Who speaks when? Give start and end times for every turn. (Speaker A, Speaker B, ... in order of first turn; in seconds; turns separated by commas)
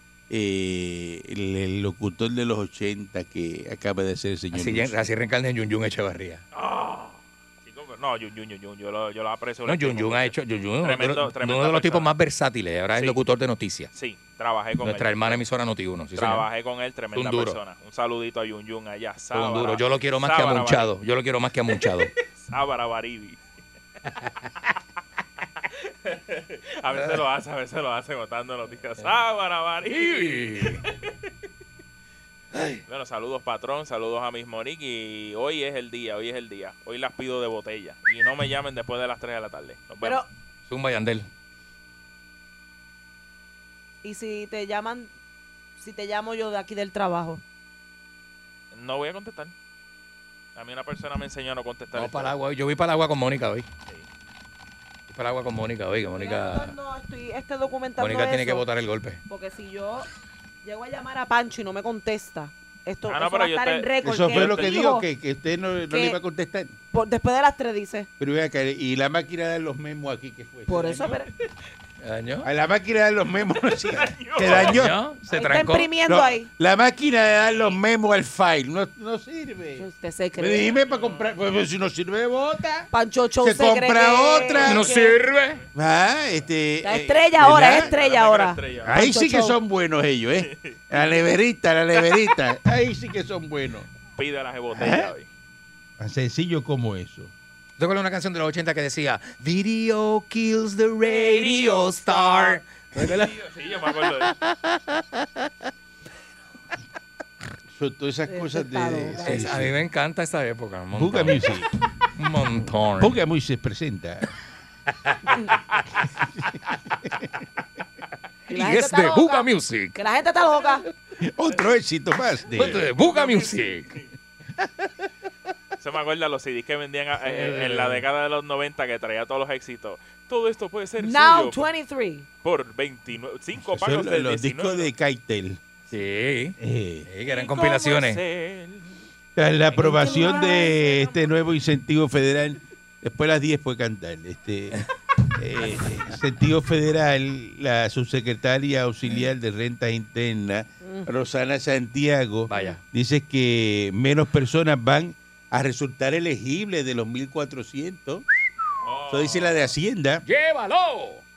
Speaker A: 0.3-5.0, Speaker B: 4.5-6.4, Speaker C: 6.5-12.1, Speaker B: 9.7-13.9, Speaker C: 12.9-13.2, Speaker C: 13.9-15.4, Speaker B: 14.8-16.5, Speaker C: 16.1-20.9, Speaker B: 17.1-17.6, Speaker B: 19.3-22.1, Speaker C: 21.7-23.4, Speaker C: 26.1-31.0, Speaker B: 29.9-30.8, Speaker B: 32.5-32.8, Speaker C: 32.9-40.2, Speaker D: 40.0-40.3, Speaker B: 40.7-41.3, Speaker D: 44.0-45.1, Speaker D: 45.8-47.4, Speaker C: 48.7-49.5, Speaker C: 50.5-52.4, Speaker B: 51.9-53.7, Speaker B: 55.1-56.7, Speaker D: 56.0-58.6, Speaker B: 58.0-59.2, Speaker D: 59.3-60.1, Speaker D: 60.6-65.0, Speaker C: 63.1-64.7, Speaker A: 64.0-66.7, Speaker D: 65.9-66.2, Speaker D: 66.9-68.1, Speaker A: 68.2-71.2, Speaker D: 70.7-71.3, Speaker B: 72.0-72.5, Speaker A: 72.4-75.0, Speaker C: 73.8-74.9, Speaker B: 74.5-75.9, Speaker D: 75.3-76.5, Speaker A: 76.1-79.8, Speaker D: 79.8-80.7, Speaker A: 80.4-84.9, Speaker C: 80.7-81.3, Speaker D: 82.9-85.2, Speaker B: 84.6-85.6, Speaker A: 85.7-87.9, Speaker D: 86.8-89.6, Speaker C: 87.8-88.9, Speaker A: 88.8-93.9, Speaker C: 90.5-91.3, Speaker C: 94.1-95.3, Speaker A: 94.7-95.1, Speaker A: 96.0-97.3, Speaker B: 97.8-103.3, Speaker C: 101.0-104.3, Speaker A: 107.7-109.8, Speaker D: 108.3-109.5, Speaker B: 109.2-111.6, Speaker A: 110.9-111.7, Speaker B: 112.1-113.2, Speaker A: 113.0-114.3, Speaker B: 115.1-115.6, Speaker D: 118.5-120.8, Speaker B: 118.5-120.0, Speaker A: 121.2-122.9, Speaker B: 122.5-124.0, Speaker C: 122.6-124.0, Speaker C: 125.8-131.6, Speaker B: 127.2-128.0, Speaker D: 131.0-132.2, Speaker C: 132.4-134.9, Speaker A: 133.6-135.6, Speaker B: 135.9-138.2, Speaker A: 136.6-137.1, Speaker C: 137.2-138.9, Speaker A: 139.3-144.8, Speaker D: 139.8-141.2, Speaker A: 145.3-158.2, Speaker D: 150.8-151.1, Speaker B: 152.5-152.8, Speaker C: 158.8-159.7, Speaker A: 159.1-160.2, Speaker B: 160.2-161.2